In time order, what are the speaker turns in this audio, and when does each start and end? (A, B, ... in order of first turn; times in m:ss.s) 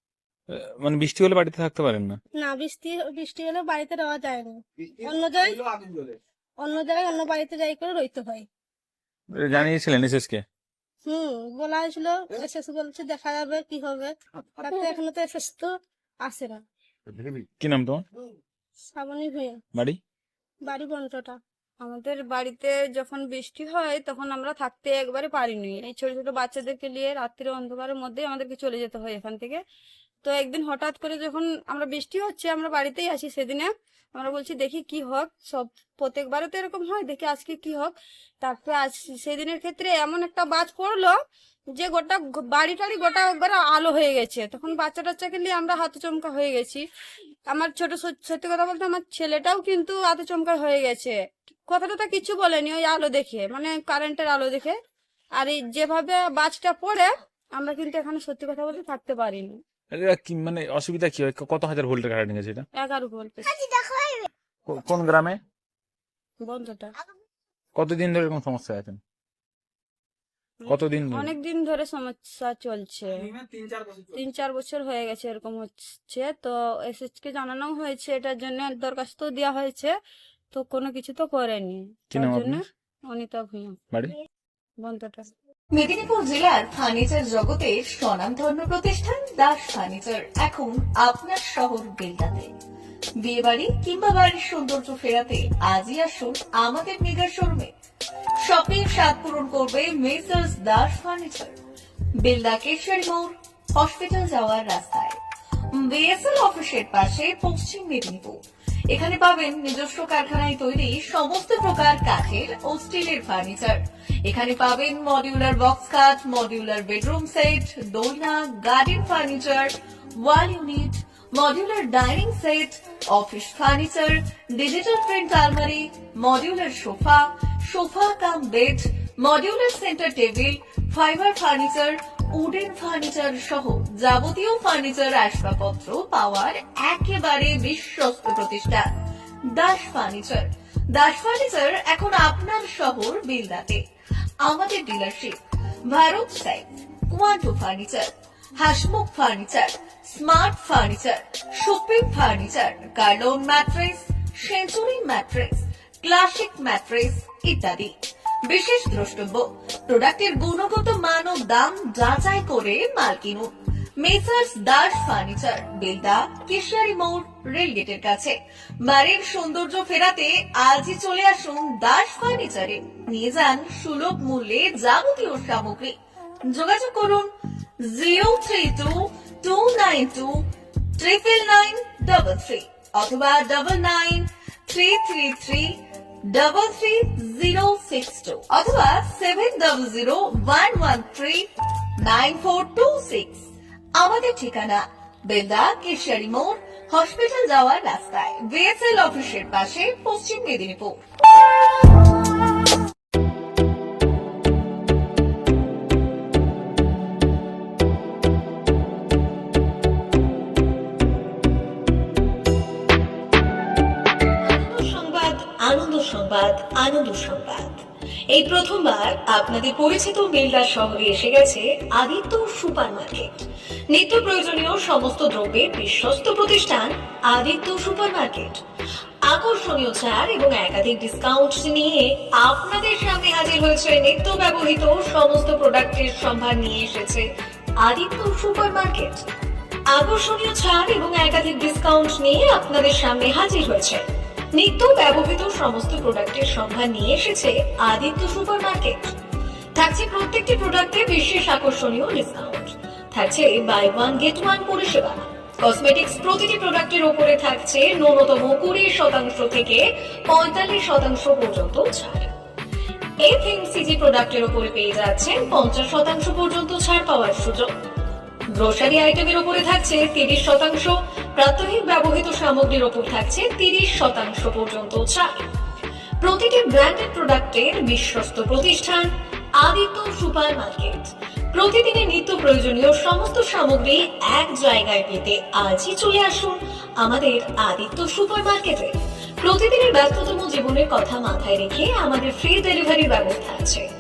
0:00.5-0:02.2 A
0:02.4-0:05.6 B
0:06.6-0:08.5 B
0:09.3-0:10.4 A
0:11.0-0:16.6 B
0:17.6-0:18.0 A
0:18.9-0:19.6 B
0:20.6-0:21.4 B
0:21.8-0:29.6 C
0:30.2-0:41.2 C
0:41.8-0:46.8 C
0:47.5-0:54.8 C
0:55.4-0:59.6 C
0:59.9-1:02.7 A
1:02.7-1:03.7 C
1:04.7-1:05.4 A
1:06.4-1:06.9 C
1:07.8-1:09.0 A
1:10.6-1:13.3 C
1:10.7-1:11.3 A
1:14.0-1:19.9 C
1:20.5-1:23.8 C
1:22.1-1:22.6 A
1:24.8-1:25.3 C
1:25.8-1:32.5 D
1:33.2-1:37.7 D
1:38.4-1:41.6 D
1:42.2-1:45.2 D
1:45.8-1:48.4 D
1:48.9-2:18.9 D
2:19.5-2:23.8 D
2:24.4-2:25.4 D
2:25.9-2:37.9 D
2:38.5-2:43.5 D
2:44.0-2:56.0 D
2:56.5-2:57.3 D
2:57.9-3:00.4 D
3:01.0-3:05.8 D
3:06.3-3:11.5 D
3:12.0-3:21.0 D
3:34.4-3:43.3 D
3:43.9-3:48.6 D
3:49.3-3:57.2 D
3:57.8-3:59.2 D
3:59.9-4:04.0 D
4:04.6-4:09.1 D
4:09.8-4:22.3 D
4:23.2-4:27.7 D
4:28.6-4:35.4 D
4:36.2-4:39.1 D
4:39.6-4:48.9 D
4:49.4-4:53.8 D